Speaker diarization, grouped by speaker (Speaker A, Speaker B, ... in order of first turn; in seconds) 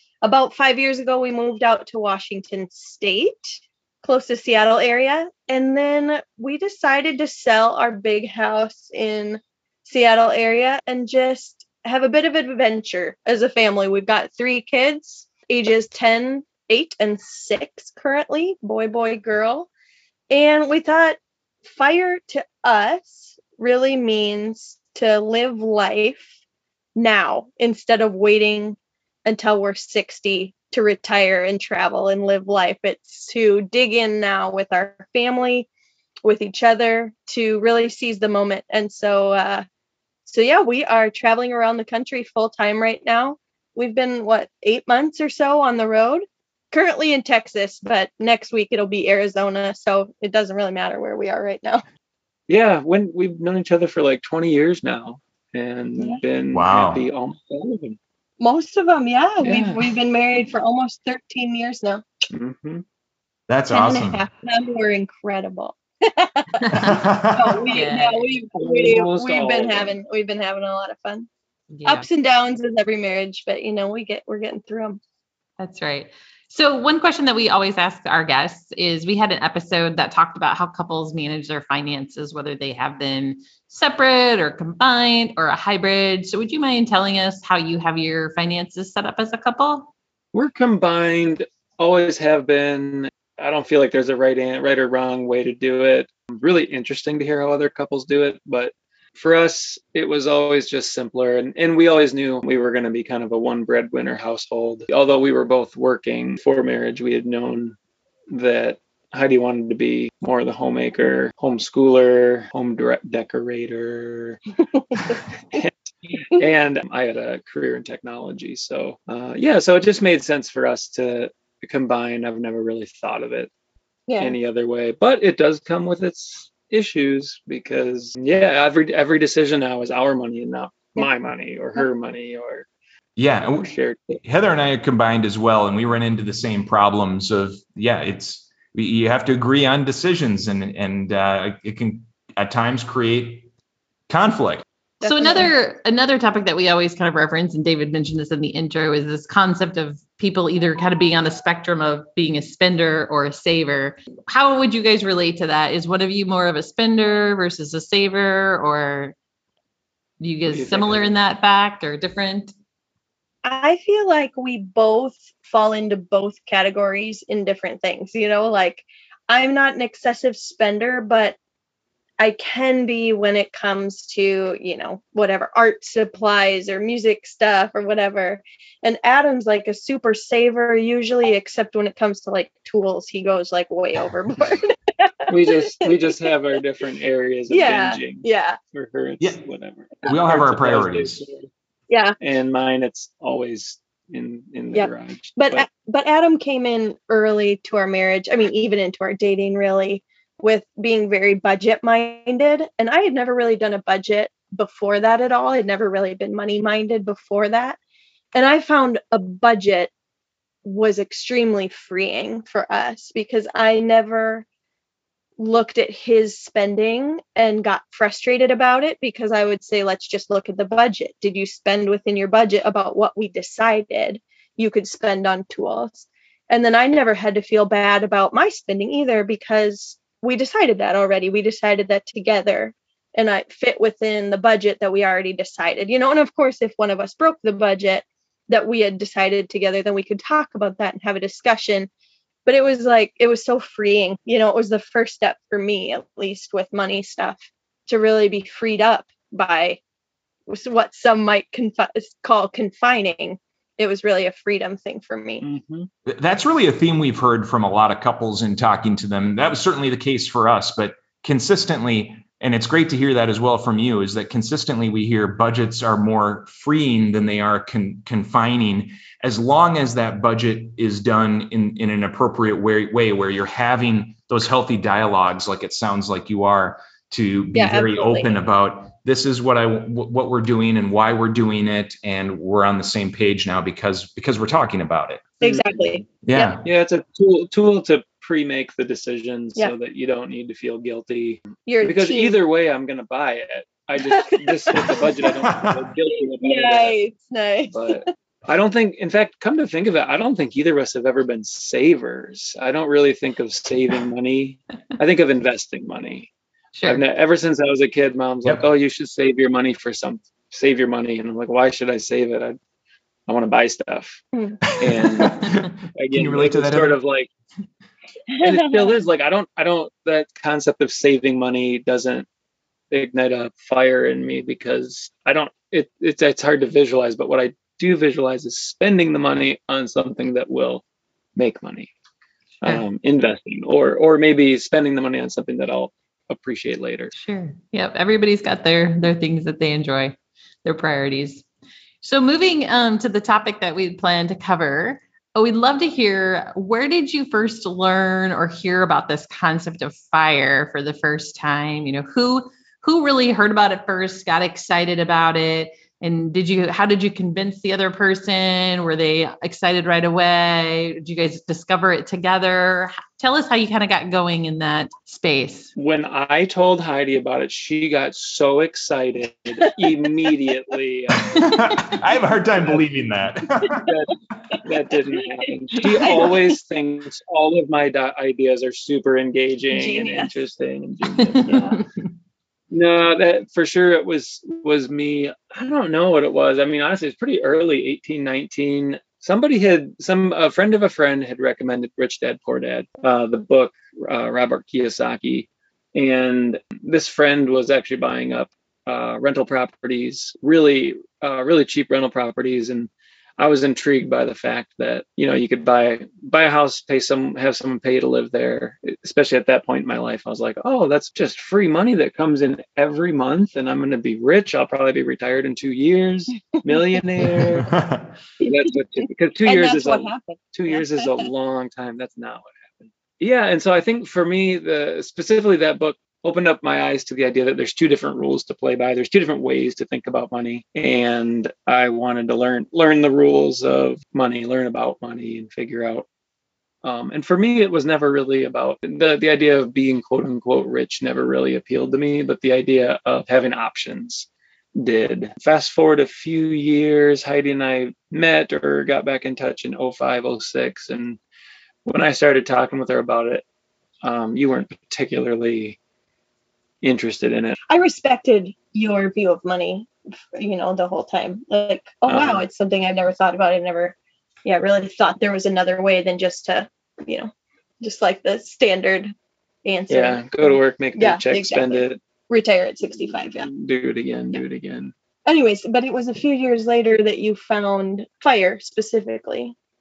Speaker A: 0.2-19.7, 20.3-26.3, 27.0-35.7, 36.2-39.6, 40.3-51.8, 58.4-62.0, 63.7-71.3, 71.8-75.0, 114.8-115.2, 124.1-124.3, 145.0-145.5, 163.4-171.4, 172.2-186.3, 187.5-188.6, 191.9-192.2, 194.7-207.8, 208.3-209.9, 210.7-214.5, 215.4-241.9, 242.5-249.8, 250.5-255.4, 277.5-278.3, 285.4-286.6, 291.7-292.4, 294.0-295.1, 296.4-298.1, 318.4-318.9, 376.0-376.4, 379.7-380.4, 381.5-381.8, 418.4-421.2, 457.7-467.3, 467.8-469.1, 469.6-473.5, 475.3-479.6
Speaker B: 52.5-58.0, 59.4-59.9, 62.3-62.8, 68.6-69.9, 90.3-107.8, 108.3-114.4, 115.5-123.5, 124.2-132.7, 133.6-134.2, 160.5-161.1, 185.3-191.4, 192.2-195.7, 255.4-255.9, 285.4-285.7, 286.6-297.0, 297.7-306.3, 306.9-312.6, 313.3-314.2, 314.7-317.3, 318.4-322.3, 322.9-330.8, 331.4-331.9, 332.6-337.1, 365.8-371.9, 372.6-372.8, 373.8-381.8, 382.7-417.7, 418.4-436.1, 436.8-451.2, 451.9-453.4, 454.0-455.8, 456.8-457.6, 462.1-462.4, 469.9-472.0, 473.4-474.9
Speaker C: 56.5-57.0, 63.5-64.2, 66.7-67.6, 133.2-133.7, 134.2-143.5, 144.1-144.6, 190.1-191.2, 256.1-285.3, 286.2-286.7, 294.8-295.9, 314.7-317.0, 371.4-373.9, 417.4-418.1
Speaker D: 66.6-67.0, 67.7-68.3, 71.7-72.1, 75.6-89.9, 145.0-159.2, 160.2-162.5, 306.8-307.0, 337.1-341.4, 342.0-365.7